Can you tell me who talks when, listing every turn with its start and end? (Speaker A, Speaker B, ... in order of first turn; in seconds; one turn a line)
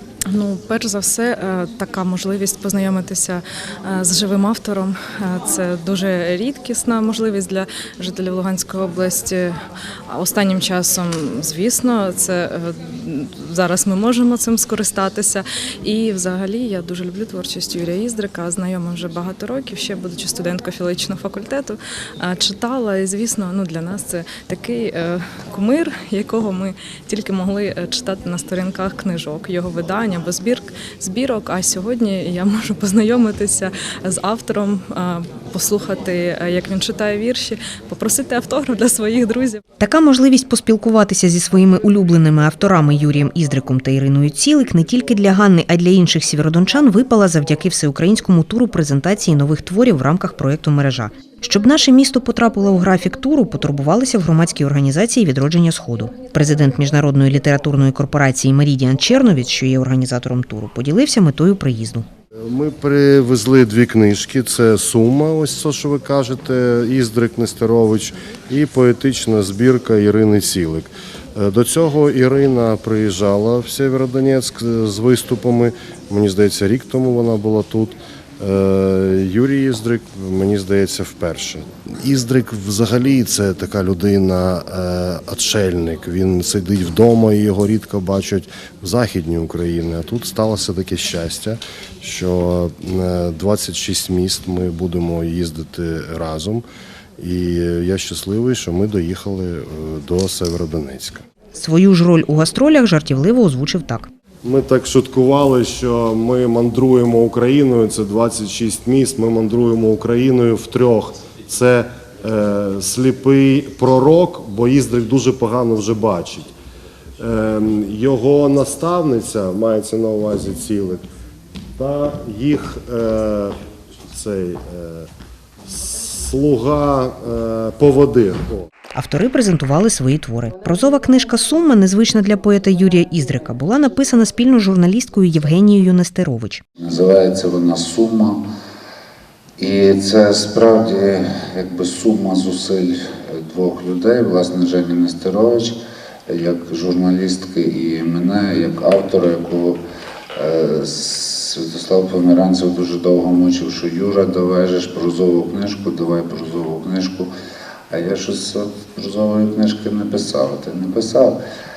Speaker A: 0.3-9.6
Speaker A: 10.1-39.6
Speaker B: 39.8-62.0
Speaker C: 62.5-96.7
Speaker C: 97.2-101.2
Speaker B: 101.5-104.1
Speaker C: 104.5-116.5
Speaker C: 117.2-121.0
Speaker C: 121.8-123.6
Speaker C: 124.1-125.1
Speaker C: 125.7-128.7
Speaker B: 128.9-136.6
Speaker D: 136.8-138.4
Speaker D: 139.6-149.8
Speaker D: 150.4-157.3
Speaker D: 157.9-161.4